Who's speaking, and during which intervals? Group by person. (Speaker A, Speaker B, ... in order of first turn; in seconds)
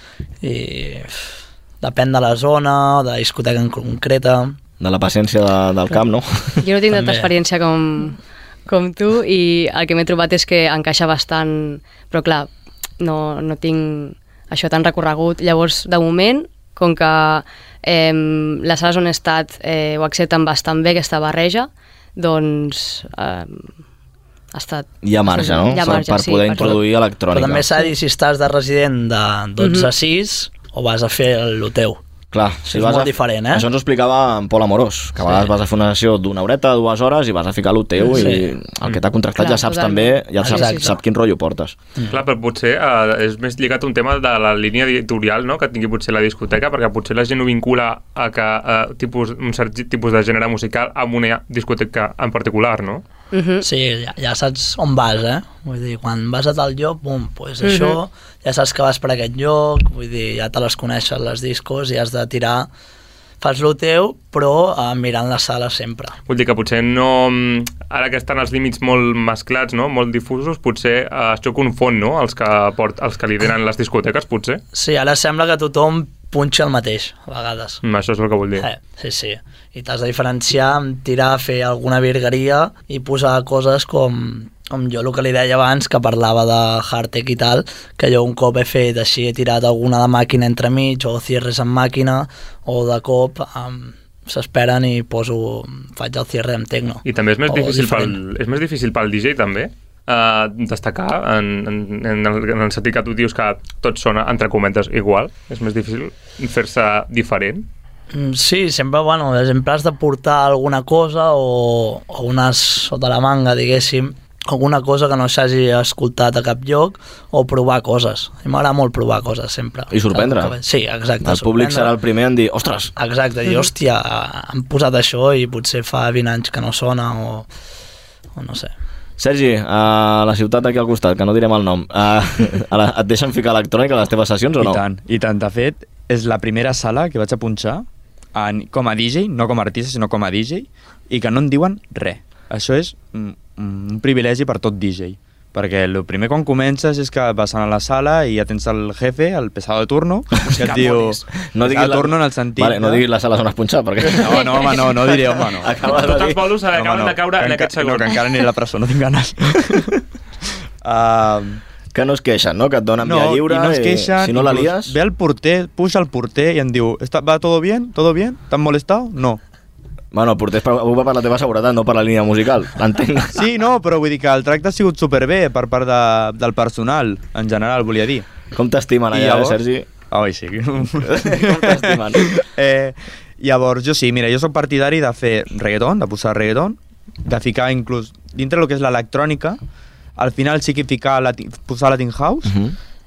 Speaker A: 0.4-1.3, 1.8-4.6, 6.9-7.3, 27.3-32.0, 32.7-33.6, 38.1-38.5, 40.5-40.8, 53.6-62.7, 63.4-66.1, 74.7-77.8, 78.6-98.2, 108.1-121.9, 123.0-127.5, 128.3-128.7
Speaker B: 4.8-6.6, 25.0-27.6, 32.3-41.8, 119.9-120.5, 121.2-122.9, 129.2-134.8, 151.5-156.4, 161.9-164.9, 170.1-173.3, 178.5-179.8, 181.1-182.3, 192.4-192.7
Speaker C: 6.6-12.5, 13.0-23.7, 24.5-26.8, 29.6-29.9, 39.4-41.0, 53.3-53.6, 57.6-58.0
Speaker D: 42.1-53.0, 66.3-74.6, 77.8-78.7, 97.0-107.7, 150.6-151.1, 155.9-158.2
Speaker E: 134.6-153.0, 154.2-155.7, 156.7-159.8, 160.8-161.6, 163.0-169.4, 173.3-178.3, 179.1-179.6, 180.1-189.6, 190.2-192.5